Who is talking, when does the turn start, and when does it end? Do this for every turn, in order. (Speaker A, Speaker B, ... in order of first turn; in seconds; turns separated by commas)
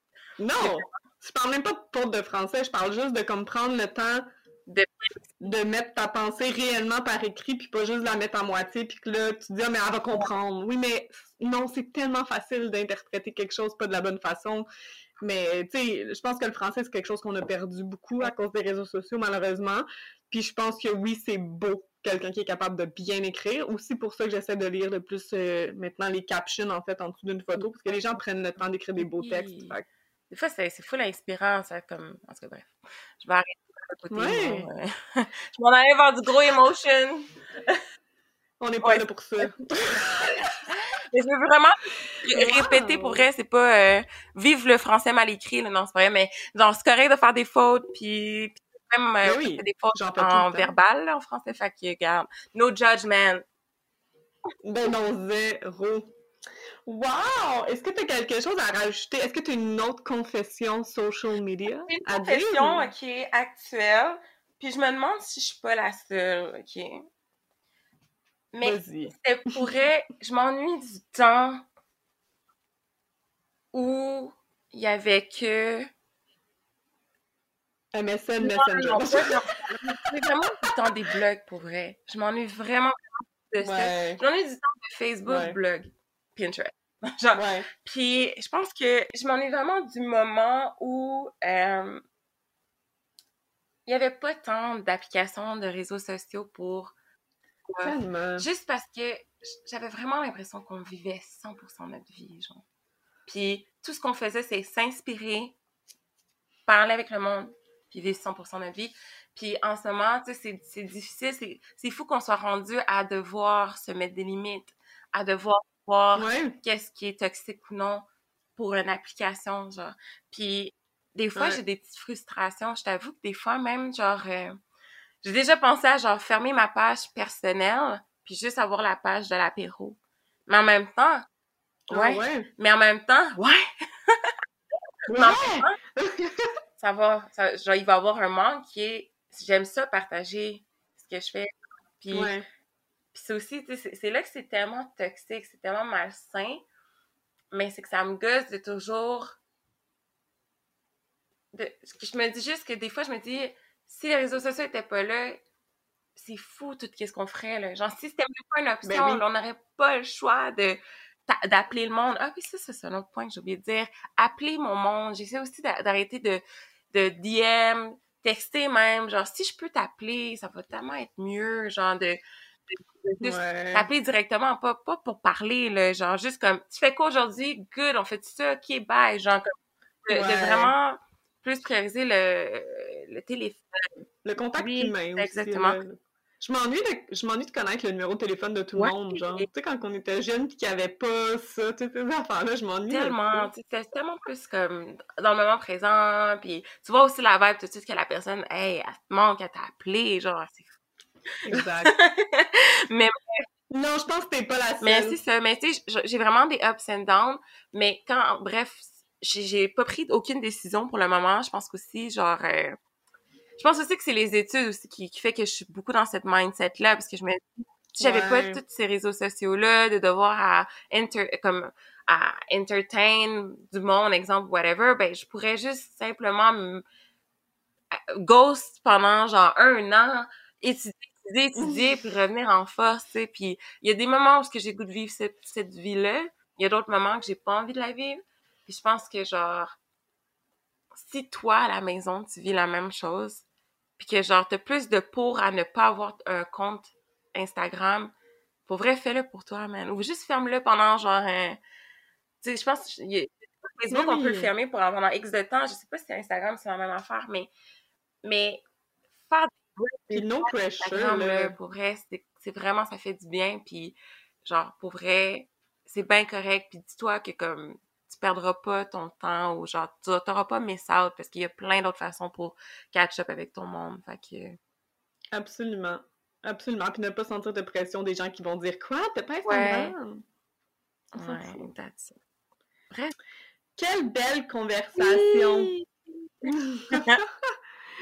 Speaker A: 0.4-4.3, Speaker B: 0.6-0.9, Speaker B: 4.7-5.4, Speaker A: 5.4-14.7, Speaker A: 15.2-29.8, Speaker B: 27.9-28.2, Speaker B: 29.0-29.8, Speaker B: 30.3-37.8, Speaker A: 34.1-34.7, Speaker A: 38.6-40.3, Speaker B: 38.8-39.5, Speaker B: 40.1-53.5, Speaker A: 42.3-43.3, Speaker A: 49.2-50.7, Speaker A: 54.6-56.1, Speaker A: 56.9-62.9, Speaker B: 61.9-67.0, Speaker B: 68.5-71.6, Speaker A: 68.6-69.1, Speaker B: 73.7-75.9, Speaker A: 77.9-79.3, Speaker B: 78.4-92.0, Speaker A: 83.6-84.2, Speaker A: 85.2-85.6, Speaker A: 87.3-87.7, Speaker B: 93.8-96.9, Speaker B: 97.7-102.6, Speaker A: 97.8-98.5, Speaker B: 103.3-105.5, Speaker B: 106.7-124.6, Speaker A: 116.1-116.5, Speaker B: 125.2-130.0, Speaker B: 130.5-131.2, Speaker A: 131.9-132.5, Speaker B: 131.9-134.3, Speaker A: 135.1-136.5, Speaker B: 135.1-135.8, Speaker B: 136.8-142.3, Speaker A: 142.1-142.4, Speaker B: 143.1-146.6, Speaker B: 147.5-149.4, Speaker B: 151.5-155.4, Speaker B: 156.2-172.2, Speaker A: 158.8-159.2, Speaker B: 172.7-179.5, Speaker A: 173.2-173.9, Speaker B: 180.0-183.9, Speaker A: 180.1-180.7, Speaker A: 184.2-193.5, Speaker B: 184.6-185.8, Speaker B: 188.8-189.5, Speaker B: 192.9-200.7, Speaker A: 201.4-201.9, Speaker B: 201.5-203.4, Speaker A: 203.7-205.2, Speaker B: 204.8-212.8, Speaker B: 213.6-226.8, Speaker A: 218.0-218.6, Speaker B: 227.9-239.8, Speaker A: 231.6-231.8, Speaker B: 240.9-243.4, Speaker B: 244.0-248.1, Speaker B: 248.7-251.6, Speaker B: 252.4-257.5, Speaker A: 253.9-254.5, Speaker B: 258.2-258.6, Speaker B: 259.2-274.6, Speaker A: 260.1-261.6, Speaker A: 275.3-280.2, Speaker B: 279.4-279.9, Speaker A: 281.1-281.7, Speaker B: 281.1-282.1, Speaker A: 283.8-285.7, Speaker B: 285.0-287.2, Speaker A: 286.4-287.5